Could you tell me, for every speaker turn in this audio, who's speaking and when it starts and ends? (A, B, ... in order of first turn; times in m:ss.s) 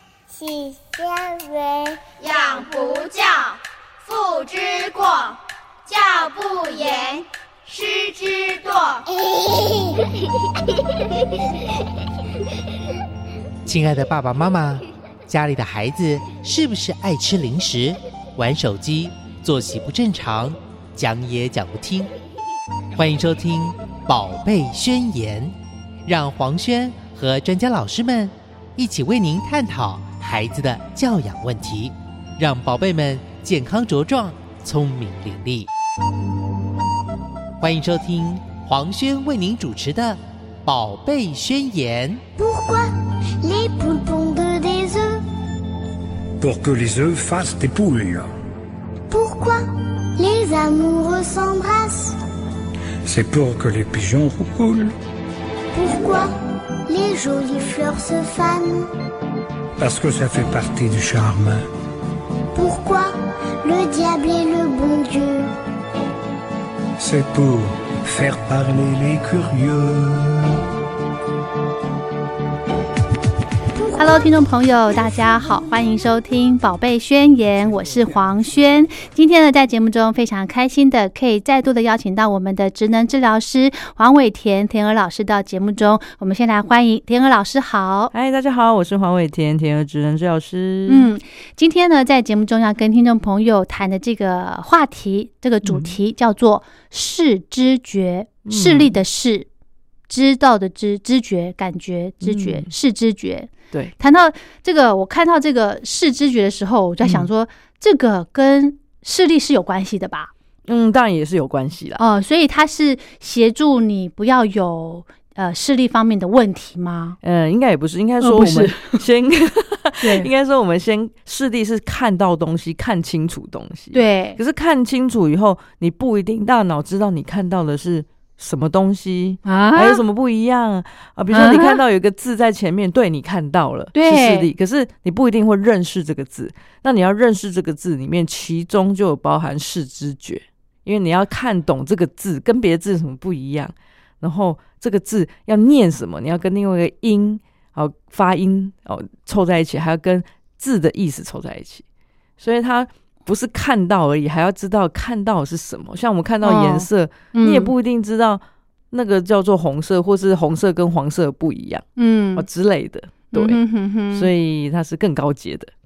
0:00.3-0:02.1 A
0:02.2-0:09.0 B
0:09.2-0:10.0 A
0:13.6-0:22.1 C
0:23.0-0:35.7 C
0:37.6-0:42.2 C
0:42.4-0:45.2 A
0:46.4-0:48.3 D
0:49.1-0:52.2 A
0:53.1-0:54.9 D
0:55.7-0:56.4 A
0:56.9-0:58.9 A
0:59.8-1:01.6 D
1:02.5-1:05.5 A
1:07.0-1:10.6 D
1:13.8-1:14.3 A
1:14.0-1:28.1 E
1:28.1-1:31.1 F
1:30.9-1:39.5 E
1:35.6-1:36.0 F
1:38.5-1:38.9 F
1:40.1-1:50.3 E
1:42.2-1:42.7 F
1:50.7-1:52.0 F
1:52.0-1:57.2 E
1:57.2-2:31.8 F
1:58.2-1:59.0 E
2:00.0-2:00.3 E
2:03.9-2:04.4 E
2:09.4-2:10.0 E
2:11.3-2:11.8 E
2:14.0-2:14.5 E
2:32.4-2:41.8 F
2:36.4-2:37.7 E
2:42.0-2:42.4 E
2:42.4-2:43.6 F
2:43.3-2:44.3 E
2:44.1-2:45.7 F